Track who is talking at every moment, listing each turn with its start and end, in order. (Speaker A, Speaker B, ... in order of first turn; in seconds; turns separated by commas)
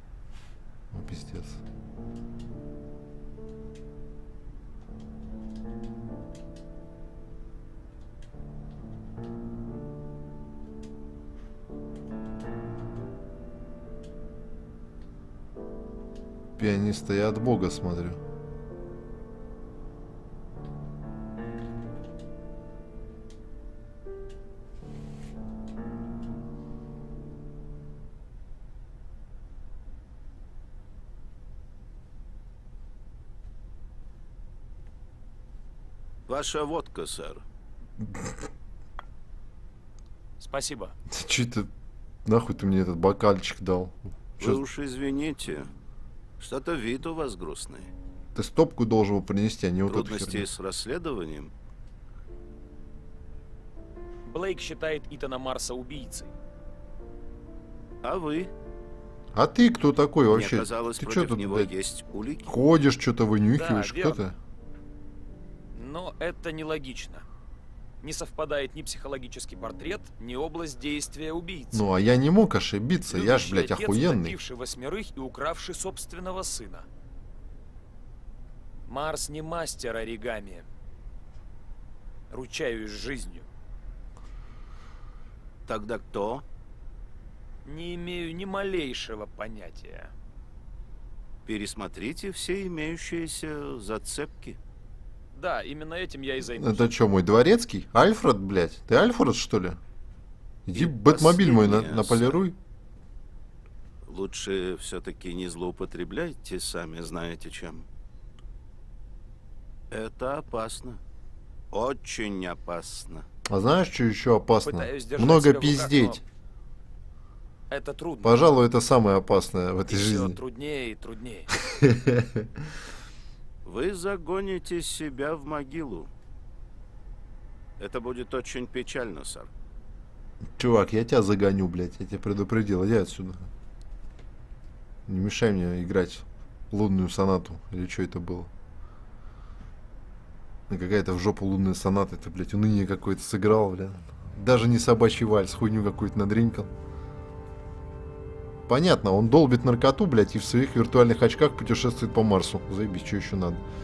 Speaker A: 0.9-1.6, Speaker A: 16.6-18.2, Speaker B: 36.3-37.4, Speaker C: 40.4-40.9, Speaker A: 41.1-41.7, Speaker A: 42.2-44.6, Speaker B: 44.4-45.7, Speaker B: 46.4-47.9, Speaker A: 48.3-50.5, Speaker B: 49.9-51.5, Speaker C: 54.2-56.3, Speaker B: 58.0-58.5, Speaker A: 59.3-61.7, Speaker B: 60.3-62.5, Speaker A: 62.5-64.3, Speaker C: 63.5-64.2, Speaker C: 65.7-67.2, Speaker C: 68.0-71.9, Speaker A: 71.7-74.3, Speaker C: 73.1-76.9, Speaker C: 78.9-80.7, Speaker C: 82.3-83.5, Speaker B: 85.7-86.4, Speaker C: 87.6-90.1, Speaker B: 91.5-94.6, Speaker C: 95.3-96.9, Speaker A: 96.5-99.8, Speaker A: 100.7-102.6, Speaker B: 100.7-102.4, Speaker B: 104.0-107.9, Speaker B: 109.9-111.0, Speaker B: 111.7-113.2, Speaker A: 113.5-116.2, Speaker C: 114.6-116.2, Speaker C: 117.7-118.6, Speaker A: 118.2-120.4, Speaker C: 119.9-121.5, Speaker A: 121.6-122.7, Speaker B: 123.6-126.1, Speaker B: 127.8-129.5, Speaker A: 130.6-133.5, Speaker A: 135.1-138.5, Speaker A: 140.7-146.7, Speaker A: 148.7-153.6